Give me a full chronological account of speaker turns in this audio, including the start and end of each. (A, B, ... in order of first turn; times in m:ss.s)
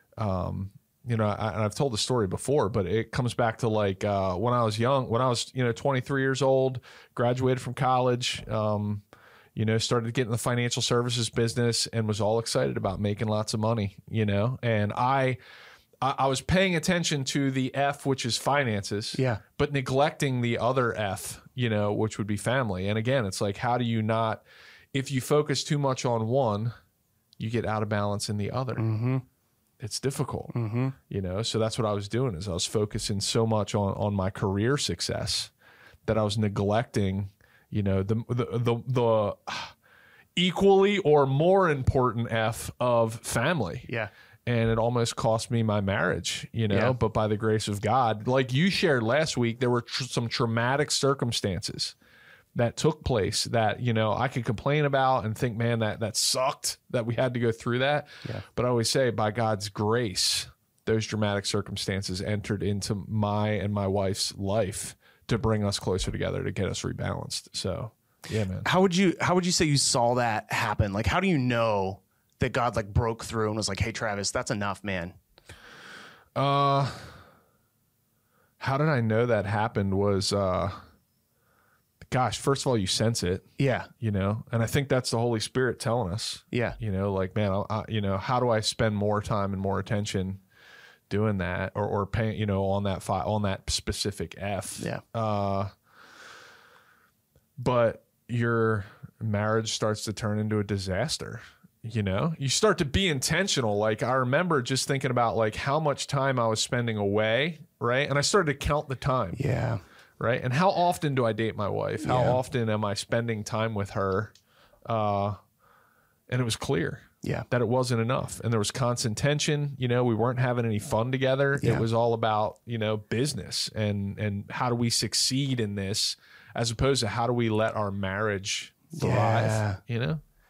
0:00.2-0:09.0 A
0:09.5-0:15.4 A
0:16.0-0:24.4 A
0:19.1-0:19.4 B
0:24.9-0:26.7 A
0:27.4-0:28.8 A
0:28.8-0:29.2 B
0:29.8-0:30.5 A
0:30.5-0:31.0 B
0:31.1-0:35.5 A
0:36.0-0:39.7 A
0:40.4-0:43.9 A
0:44.5-0:51.9 A
0:46.7-0:47.0 B
0:52.5-1:08.7 A
1:08.6-1:15.2 B
1:16.4-1:17.0 A
1:18.6-1:20.8 A
1:22.0-1:23.4 A
1:23.6-1:23.9 B
1:24.0-1:30.4 A
1:26.5-1:26.8 B
1:31.1-1:35.7 A
1:37.6-1:49.4 A
1:49.4-1:49.8 B
1:50.2-1:54.3 A
1:52.0-1:52.4 B
1:54.8-1:55.4 A
1:56.3-2:10.2 A
2:01.6-2:01.8 B
2:08.9-2:09.8 B